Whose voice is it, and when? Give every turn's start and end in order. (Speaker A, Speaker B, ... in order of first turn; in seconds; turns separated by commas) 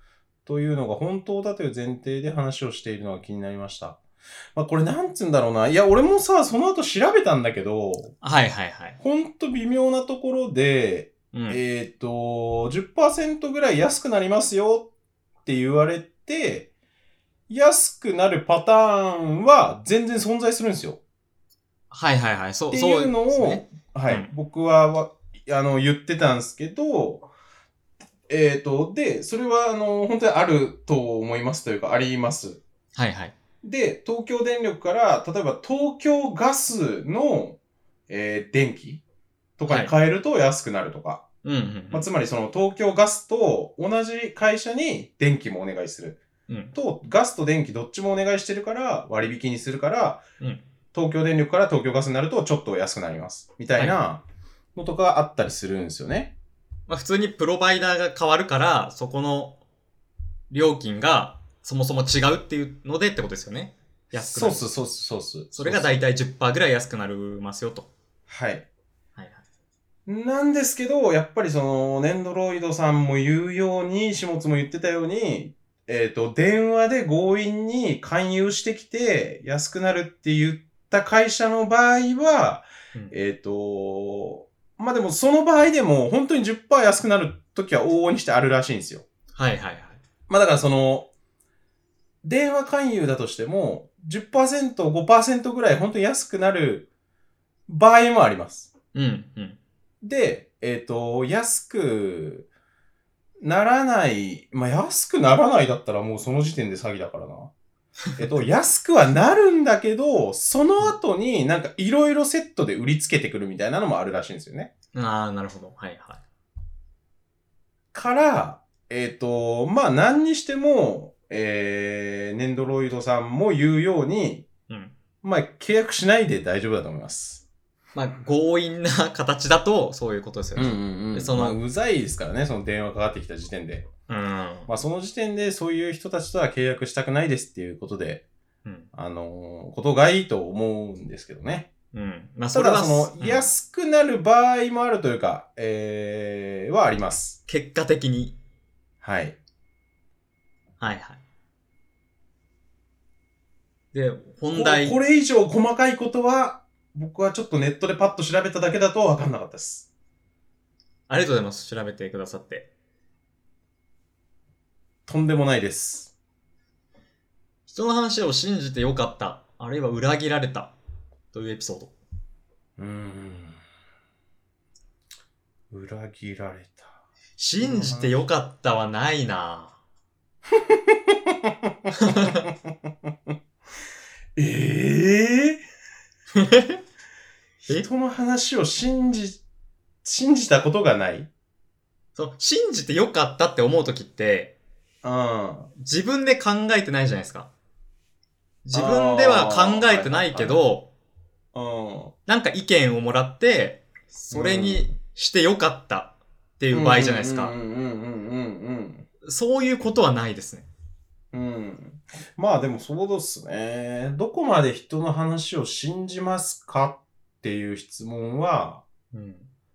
Speaker A: 0.5-4.0, Speaker A: 4.5-8.2, Speaker B: 8.2-9.0, Speaker A: 9.0-14.9, Speaker B: 11.3-11.6, Speaker A: 15.4-16.7, Speaker A: 17.5-21.0, Speaker B: 21.9-24.3, Speaker A: 22.7-27.3, Speaker A: 28.3-32.6, Speaker B: 32.9-33.4, Speaker A: 33.6-37.6, Speaker A: 38.1-39.0, Speaker A: 39.6-41.2, Speaker B: 39.7-39.9, Speaker B: 41.4-42.1, Speaker A: 41.9-46.2, Speaker B: 46.5-46.7, Speaker A: 46.7-50.2, Speaker B: 50.4-50.6, Speaker A: 50.9-54.2, Speaker A: 54.7-56.4, Speaker B: 56.9-59.6, Speaker B: 60.5-64.7, Speaker A: 64.2-66.0, Speaker B: 65.5-67.9, Speaker A: 68.3-68.7, Speaker B: 69.2-69.4, Speaker A: 70.0-89.0, Speaker B: 89.3-90.0, Speaker A: 90.3-91.1, Speaker A: 92.2-96.9, Speaker A: 97.7-98.7, Speaker B: 98.9-99.6, Speaker A: 100.0-102.5, Speaker A: 103.4-107.5, Speaker A: 108.2-114.7, Speaker B: 114.9-116.2, Speaker A: 117.9-124.5, Speaker B: 124.7-124.9, Speaker A: 125.2-127.4, Speaker B: 127.9-131.6, Speaker A: 130.6-133.9, Speaker B: 134.1-134.7, Speaker A: 134.7-138.2, Speaker A: 138.9-141.7, Speaker B: 141.9-143.5, Speaker A: 142.5-147.4, Speaker B: 147.5-148.4, Speaker A: 149.0-149.4, Speaker B: 150.8-151.2, Speaker B: 153.9-155.0, Speaker A: 154.5-159.9, Speaker B: 161.1-162.7, Speaker A: 165.1-166.1, Speaker B: 167.7-170.7, Speaker B: 171.3-171.9, Speaker A: 172.8-173.6, Speaker A: 175.7-176.9, Speaker B: 177.4-179.8, Speaker A: 177.6-178.2, Speaker A: 180.6-182.5, Speaker B: 181.9-182.5, Speaker A: 184.3-185.6, Speaker B: 186.3-186.8, Speaker A: 187.7-189.4, Speaker A: 190.0-191.3, Speaker B: 192.1-194.6, Speaker A: 195.0-195.7, Speaker B: 195.8-197.5, Speaker B: 198.6-200.9, Speaker A: 198.7-200.6, Speaker A: 201.5-202.1, Speaker B: 202.2-207.5, Speaker A: 204.3-204.9, Speaker A: 206.7-209.1, Speaker B: 209.2-210.7, Speaker A: 211.3-218.8, Speaker B: 219.1-219.5